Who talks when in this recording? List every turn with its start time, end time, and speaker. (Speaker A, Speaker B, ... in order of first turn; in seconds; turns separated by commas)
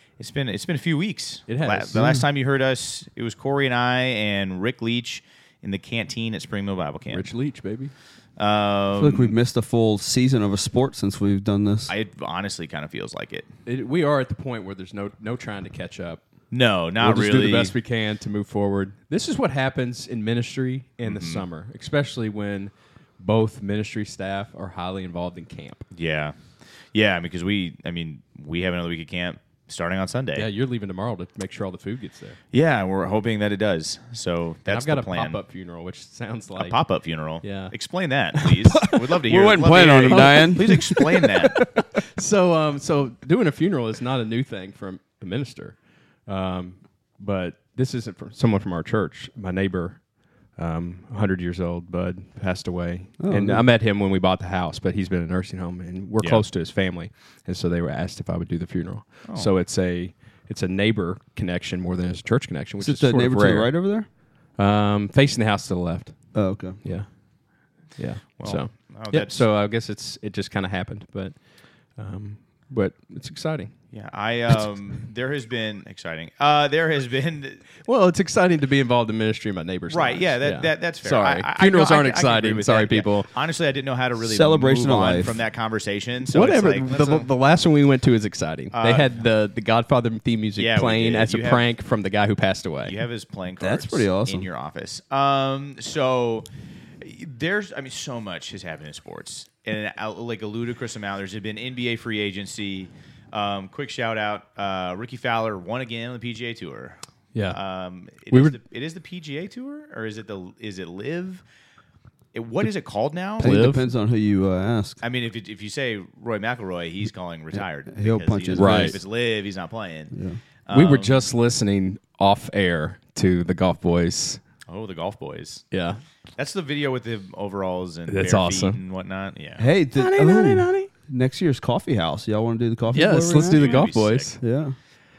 Speaker A: 0.2-7.3, Speaker B: 1.5-2.1, Speaker C: 1.9-2.2, Speaker B: 7.1-7.9, Speaker A: 8.4-9.3, Speaker C: 8.9-11.9, Speaker A: 11.9-13.5, Speaker B: 13.7-16.2, Speaker A: 16.5-17.7, Speaker B: 17.0-25.8, Speaker A: 21.0-21.4, Speaker A: 25.9-30.5, Speaker B: 30.4-32.4, Speaker A: 32.5-35.4, Speaker B: 34.7-36.8, Speaker A: 36.5-41.7, Speaker B: 37.4-37.7, Speaker C: 38.8-41.7, Speaker B: 40.1-50.0, Speaker B: 50.5-63.7, Speaker C: 53.2-53.6, Speaker C: 62.8-64.1, Speaker B: 64.5-66.3, Speaker C: 66.3-66.8, Speaker B: 66.8-67.1, Speaker B: 67.9-71.3, Speaker A: 68.4-69.5, Speaker B: 72.0-73.7, Speaker A: 73.9-77.6, Speaker B: 77.8-83.3, Speaker A: 79.9-87.2, Speaker C: 84.2-85.4, Speaker B: 86.3-92.9, Speaker A: 88.7-89.2, Speaker A: 90.6-91.7, Speaker A: 92.8-96.5, Speaker C: 93.6-94.5, Speaker A: 97.0-111.4, Speaker B: 108.3-108.6, Speaker A: 112.3-113.6, Speaker C: 113.4-115.0, Speaker B: 113.4-113.9, Speaker A: 115.0-120.1, Speaker C: 117.5-119.0, Speaker B: 118.6-119.0, Speaker C: 120.1-120.4, Speaker A: 120.7-121.2, Speaker B: 120.7-124.4, Speaker A: 124.7-125.6, Speaker B: 125.7-126.0, Speaker A: 126.4-129.7, Speaker B: 128.1-128.8, Speaker C: 129.6-134.7, Speaker B: 129.9-130.9, Speaker B: 132.9-134.4, Speaker A: 133.4-134.3